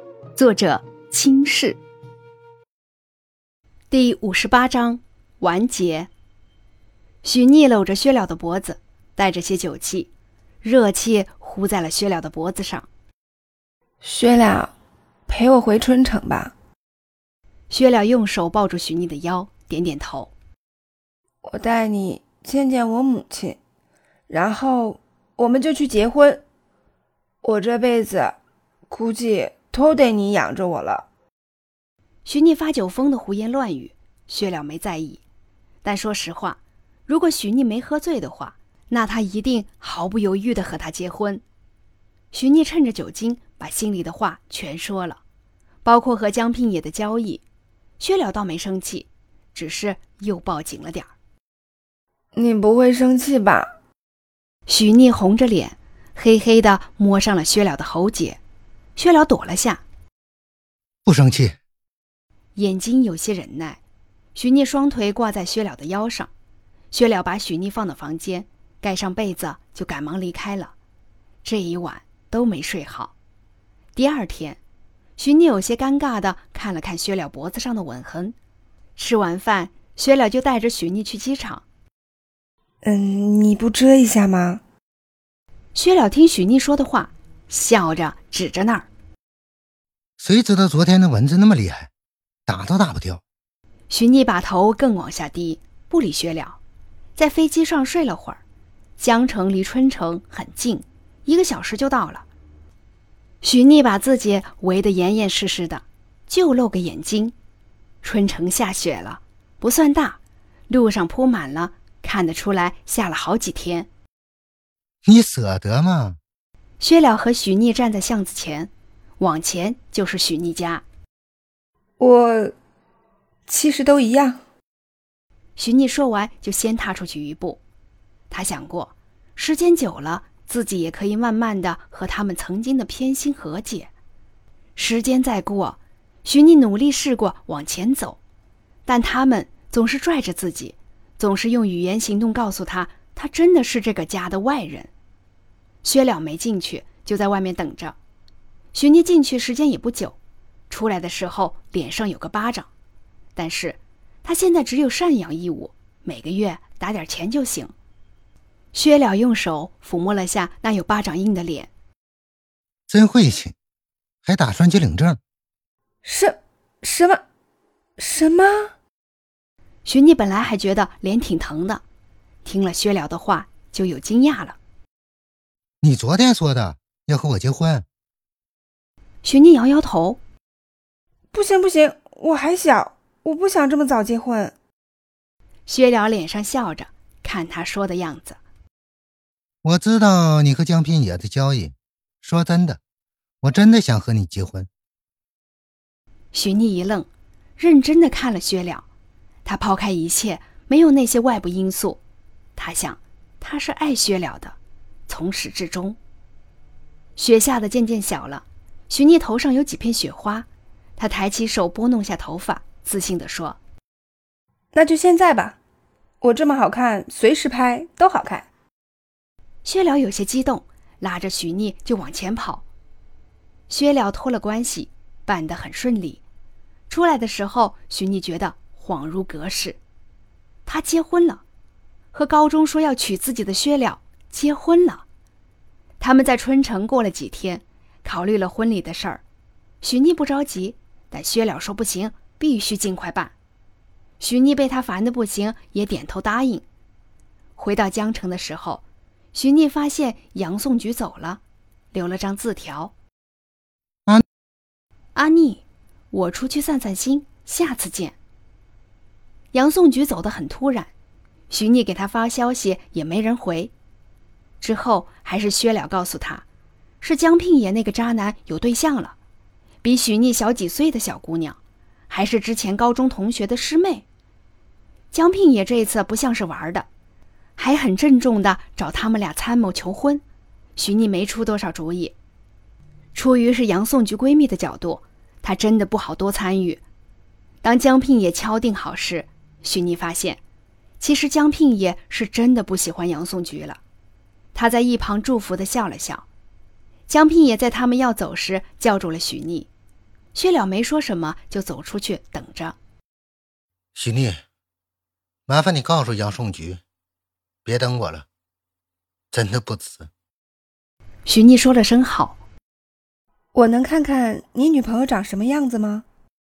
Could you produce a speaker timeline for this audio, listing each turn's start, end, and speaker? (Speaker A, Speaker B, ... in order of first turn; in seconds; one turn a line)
Speaker A: 0.3-1.8
Speaker A: 3.9-6.1
Speaker A: 7.2-10.1
Speaker A: 10.6-12.9
Speaker B: 14.0-14.7
Speaker B: 15.3-16.5
Speaker A: 17.7-20.3
Speaker B: 21.4-23.6
Speaker B: 24.3-26.4
Speaker B: 27.4-28.4
Speaker B: 28.9-31.1
Speaker A: 32.2-35.2
Speaker A: 35.8-41.4
Speaker A: 42.3-45.2
Speaker A: 45.9-47.4
Speaker A: 48.0-51.1
Speaker B: 52.3-53.7
Speaker A: 54.7-58.4
Speaker A: 59.0-59.8
Speaker C: 61.0-61.6
Speaker A: 62.6-63.8
Speaker A: 64.3-66.3
Speaker A: 66.9-70.7
Speaker A: 71.4-73.1
Speaker A: 74.0-74.6
Speaker A: 75.2-78.3
Speaker A: 79.0-81.6
Speaker B: 82.8-84.6
Speaker A: 85.8-88.9
Speaker C: 90.2-91.9
Speaker C: 92.5-93.2
Speaker A: 93.9-96.6
Speaker A: 97.2-98.4
Speaker A: 99.0-102.3
Speaker A: 103.4-107.3
Speaker A: 108.0-110.2
Speaker A: 110.7-113.9
Speaker C: 115.0-116.2
Speaker A: 116.8-120.8
Speaker B: 122.0-122.5
Speaker B: 123.5-124.4
Speaker A: 125.6-127.6
Speaker A: 128.3-133.9
Speaker A: 134.8-138.2
Speaker A: 138.9-144.9
Speaker A: 145.8-148.0
Speaker A: 148.7-150.2
Speaker A: 150.7-152.7
Speaker A: 153.3-157.7
Speaker A: 158.7-161.7
Speaker C: 162.9-163.5
Speaker C: 164.2-165.2
Speaker B: 166.0-167.2
Speaker B: 168.0-168.7
Speaker A: 169.9-171.8
Speaker A: 172.4-174.6
Speaker C: 175.8-177.8
Speaker A: 179.2-180.2
Speaker B: 181.3-184.5
Speaker A: 185.7-188.4
Speaker C: 189.6-192.8
Speaker C: 193.4-194.7
Speaker A: 196.3-198.8
Speaker A: 199.4-202.0
Speaker A: 202.6-204.6
Speaker A: 205.1-206.0
Speaker A: 207.2-213.6
Speaker B: 214.7-215.6
Speaker B: 216.2-218.5
Speaker A: 219.7-222.6
Speaker A: 223.7-226.2
Speaker A: 226.9-229.8
Speaker A: 230.7-231.4
Speaker A: 232.1-235.0
Speaker A: 236.0-239.2
Speaker A: 239.8-243.3
Speaker A: 244.2-246.7
Speaker A: 247.6-248.8
Speaker A: 249.3-251.4
Speaker A: 251.9-252.9
Speaker A: 255.2-258.2
Speaker A: 259.5-260.9
Speaker A: 261.5-263.7
Speaker A: 264.6-266.4
Speaker A: 267.0-269.1
Speaker A: 269.8-271.6
Speaker A: 272.1-274.1
Speaker A: 275.1-276.9
Speaker A: 277.6-280.2
Speaker A: 280.8-282.1
Speaker A: 283.1-286.8
Speaker A: 287.6-290.4
Speaker A: 291.0-293.8
Speaker A: 294.5-296.3
Speaker A: 297.1-299.7
Speaker A: 300.3-302.8
Speaker C: 303.9-304.4
Speaker C: 305.5-306.8
Speaker C: 307.6-308.3
Speaker C: 309.3-310.1
Speaker A: 311.2-312.4
Speaker B: 313.5-316.1